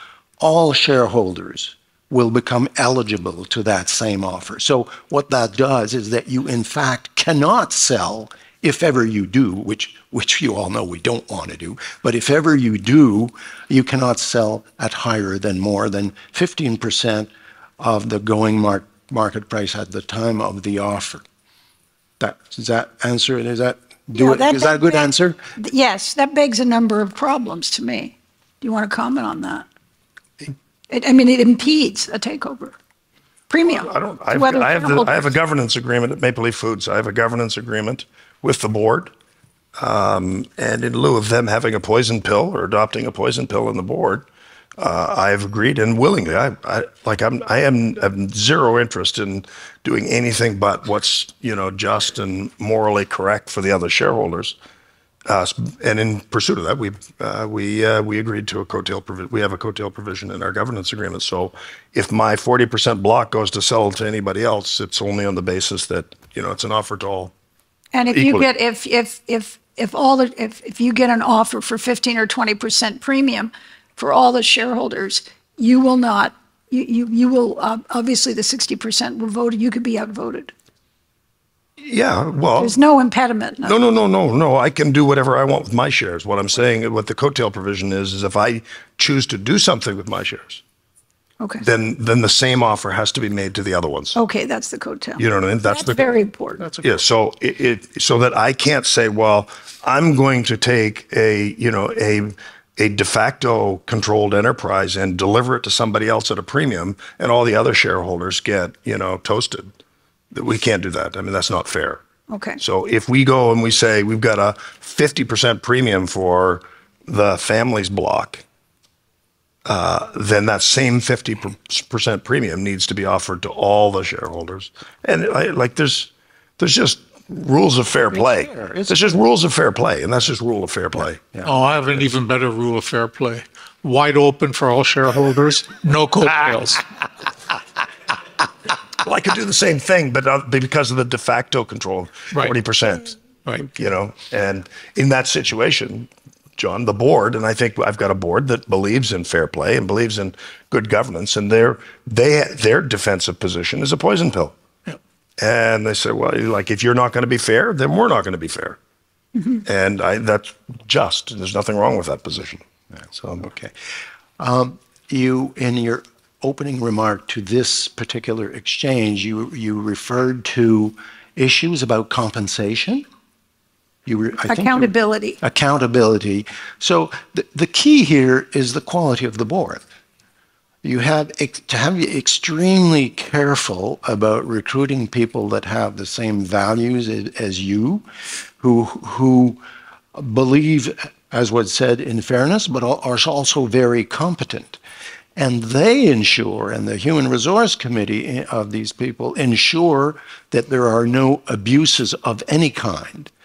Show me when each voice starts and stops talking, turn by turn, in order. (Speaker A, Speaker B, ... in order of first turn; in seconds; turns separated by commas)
Speaker A: 0.4-21.2, Speaker A: 22.2-25.4, Speaker B: 24.1-29.7, Speaker B: 30.9-32.8, Speaker B: 33.5-35.3, Speaker C: 33.7-39.1, Speaker C: 39.8-44.3, Speaker C: 44.8-54.6, Speaker C: 55.3-67.3, Speaker B: 67.9-80.5, Speaker C: 68.1-68.5, Speaker C: 81.8-82.8, Speaker B: 82.6-83.8, Speaker C: 83.6-90.6, Speaker C: 91.6-94.2, Speaker B: 94.2-96.7, Speaker C: 95.2-96.0, Speaker C: 96.8-109.7, Speaker C: 110.3-112.0, Speaker B: 112.3-112.6, Speaker C: 112.6-118.4, Speaker C: 119.7-131.2, Speaker A: 128.1-129.2, Speaker D: 131.4-136.8, Speaker C: 139.0-154.6, Speaker D: 143.4-143.8, Speaker C: 155.4-158.8, Speaker B: 159.4-159.6, Speaker C: 159.7-163.5, Speaker A: 163.4-163.7, Speaker A: 164.4-173.1, Speaker A: 174.1-179.8, Speaker B: 174.4-175.4, Speaker A: 180.8-188.1, Speaker A: 188.6-189.6, Speaker A: 190.1-194.8, Speaker A: 195.4-203.3